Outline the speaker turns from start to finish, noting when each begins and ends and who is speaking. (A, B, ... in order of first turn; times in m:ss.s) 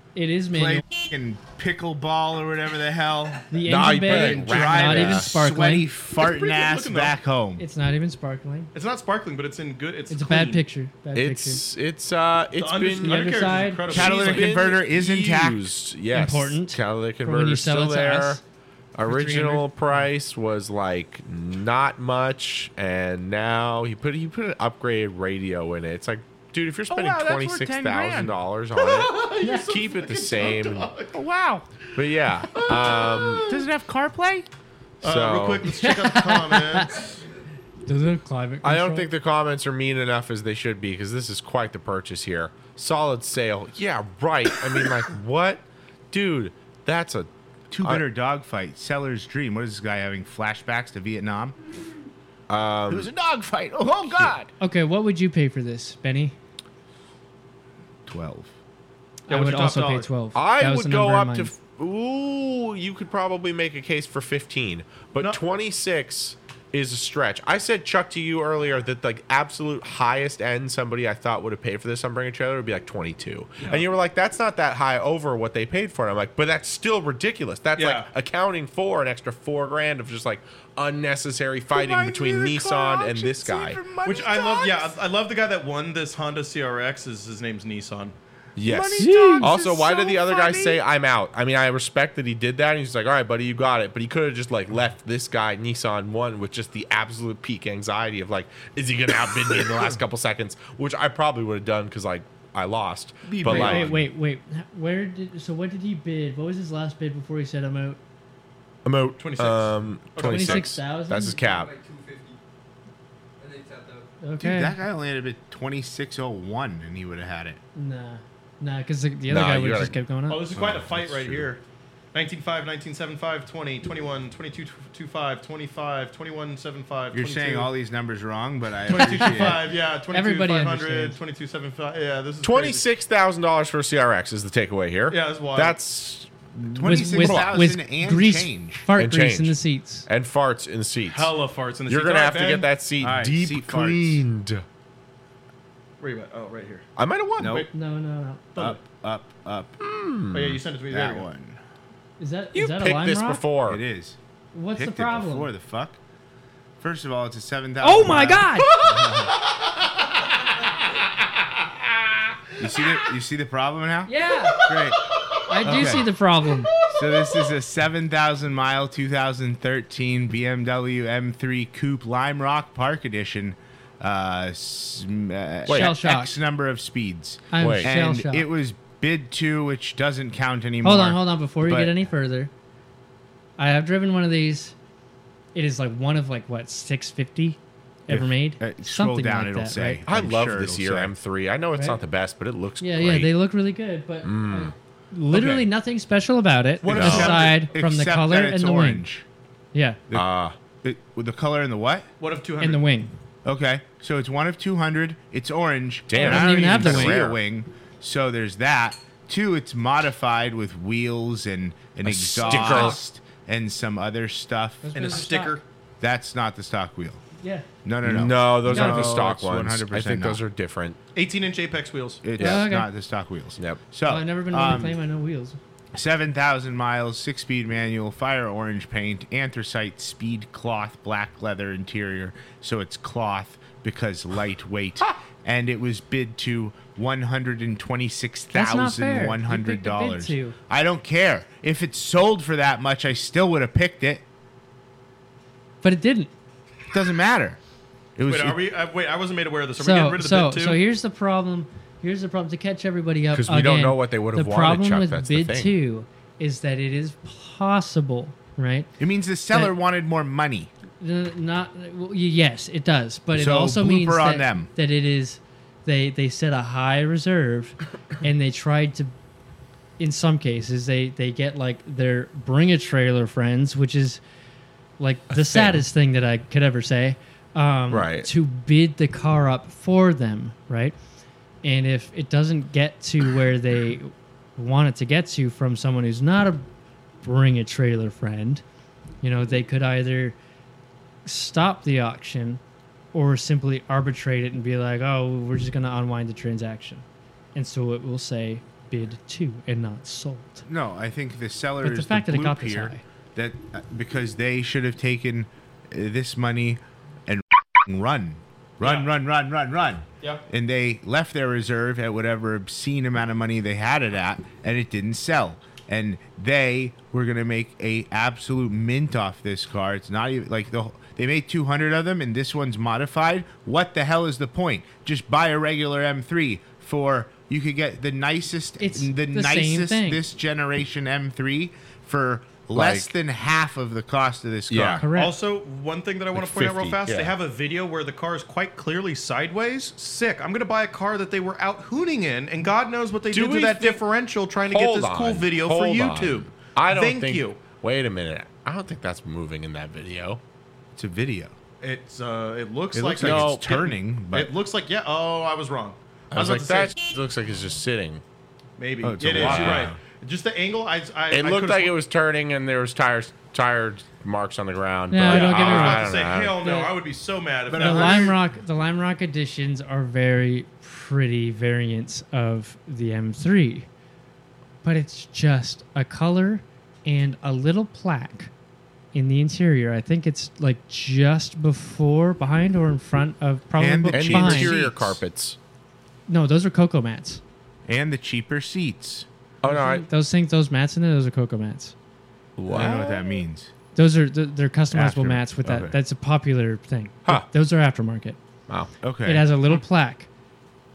0:00.2-0:00.8 A
0:00.5-0:07.6 B
0:03.5-0:05.9 A
0:03.6-0:05.3 C
0:06.2-0:07.2 D
0:07.6-0:08.7 A
0:08.7-0:10.7 D
0:10.1-0:11.6 A
0:11.2-0:18.4 C
0:12.6-0:14.7 D
0:13.0-0:13.9 A
0:13.9-0:15.7 B
0:16.1-0:18.4 A
0:19.0-0:30.9 C
0:19.1-0:20.1 A
0:26.9-0:28.4 B
0:28.8-0:31.2 D
0:31.1-0:31.7 B
0:32.0-0:33.5 C
0:32.6-0:33.4 D
0:33.4-0:34.5 B
0:35.0-0:35.7 C
0:35.0-0:37.2 D
0:35.7-0:37.0 A
0:37.9-0:39.1 A
0:38.6-0:47.3 C
0:47.7-0:51.6 B
0:52.5-0:53.1 C
0:52.9-0:54.5 B
0:54.0-0:54.4 C
0:54.6-0:56.3 A
0:58.1-0:58.5 B
0:59.3-1:01.5 A
0:59.3-1:00.1 D
1:00.3-1:23.8 C
1:17.8-1:18.1 D
1:21.7-1:24.9 B
1:24.0-1:28.2 D
1:28.6-1:44.0 C
1:28.6-1:30.8 B
1:29.0-1:29.5 A
1:43.3-1:43.8 D
1:43.4-1:43.9 B
1:43.4-1:48.0 A
1:48.8-1:51.7 C
1:49.2-1:50.7 D
1:50.2-1:51.4 A
1:51.2-1:52.4 E
1:53.4-1:54.1 E
1:54.2-1:54.8 A
1:54.4-1:57.6 B
1:57.8-2:00.4 A
1:59.3-2:00.0 C
2:00.3-2:01.6 D
2:00.6-2:01.4 B
2:02.1-2:07.7 D
2:07.1-2:09.6 B
2:08.9-2:12.9 D
2:08.9-2:11.2 A
2:12.4-2:17.6 C
2:15.1-2:15.8 D
2:16.7-2:18.9 B
2:16.8-2:20.1 A
2:18.9-2:21.3 C
2:21.1-2:22.7 D
2:21.9-2:24.6 C
2:23.0-2:24.3 B
2:26.0-2:26.8 D
2:27.0-2:27.7 C
2:27.4-2:27.7 B
2:27.4-2:27.7 D
2:27.7-2:28.4 A
2:28.6-2:28.8 D
2:28.6-2:29.8 B
2:29.8-2:30.6 C
2:30.3-2:31.3 D
2:30.9-2:31.6 B
2:32.2-2:33.4 A
2:32.5-2:33.8 C
2:33.7-2:34.2 B
2:34.5-2:35.5 A
2:34.7-2:36.0 B
2:36.8-2:39.3 B
2:37.8-2:38.7 A
2:38.7-2:39.3 C
2:42.6-2:45.0 B
2:44.1-2:44.7 A
2:45.4-2:46.7 A
2:45.6-2:46.1 B
2:46.9-3:02.1 B
2:55.7-2:55.9 C
2:55.7-2:56.4 A
2:57.5-2:58.5 A
2:57.6-2:57.9 C
3:00.8-3:02.5 A
3:03.6-3:04.7 A
3:05.5-3:10.0 A
3:08.1-3:11.2 B
3:10.1-3:13.3 C
3:11.8-3:12.0 A
3:12.8-3:19.1 A
3:14.2-3:14.7 C
3:16.8-3:17.7 D
3:16.9-3:19.3 B
3:16.9-3:17.5 C
3:19.7-3:20.0 A
3:20.1-3:20.6 C
3:20.8-3:22.1 B
3:22.2-3:22.8 D
3:22.6-3:23.1 A
3:23.4-3:35.2 B
3:26.1-3:27.4 C
3:26.2-3:27.2 A
3:32.0-3:33.0 C
3:32.5-3:32.8 D
3:34.8-3:35.6 A
3:35.0-3:35.6 D
3:36.0-3:37.2 B
3:37.4-3:37.6 A
3:37.8-3:40.4 B
3:38.0-3:41.0 C
3:38.7-3:39.2 A
3:41.2-3:42.2 D
3:42.2-3:45.0 B
3:42.4-3:42.9 A
3:44.1-3:45.6 A
3:45.9-4:04.2 B
3:58.5-4:00.6 A
4:05.8-4:06.3 A
4:06.9-4:07.6 B
4:08.2-4:08.6 B
4:08.2-4:10.8 D
4:09.8-4:18.9 A
4:13.3-4:15.8 C
4:19.0-4:20.7 B
4:21.0-4:29.1 A
4:23.3-4:24.7 B
4:30.0-4:34.2 A
4:35.0-4:41.0 A
4:35.3-4:35.8 C
4:37.9-4:38.3 C
4:41.6-4:46.7 A
4:47.2-4:48.6 A
4:49.2-4:50.4 A
4:51.2-4:52.6 A
4:53.1-4:57.0 A
4:57.6-5:00.7 A
5:00.7-5:35.0 B
5:01.8-5:03.0 A
5:08.8-5:09.1 D
5:28.8-5:30.2 A
5:32.7-5:33.1 C
5:34.7-5:35.0 C
5:35.0-5:35.4 A
5:35.1-5:47.6 D
5:36.4-5:37.4 C
5:43.3-5:44.0 C
5:44.6-5:50.4 C
5:51.0-5:51.6 B
5:51.8-5:56.9 D
5:52.9-5:54.6 B
5:53.2-5:53.7 C
5:56.3-5:58.2 C
5:58.8-6:02.0 D
5:59.0-6:00.0 B
5:59.3-6:00.0 C
6:01.3-6:06.6 C
6:05.1-6:06.9 A
6:05.2-6:08.4 D
6:07.7-6:08.4 B
6:07.7-6:13.9 A
6:14.8-6:18.5 A
6:19.1-6:24.8 A
6:23.8-6:25.2 B
6:24.1-6:25.6 C
6:26.3-6:27.4 A
6:27.9-6:29.3 B
6:29.6-6:30.1 C
6:29.6-6:31.9 A
6:32.6-6:33.2 C
6:32.7-6:33.7 B
6:34.0-6:38.4 A
6:34.9-6:36.0 B
6:39.0-6:39.5 B
6:39.2-6:40.3 A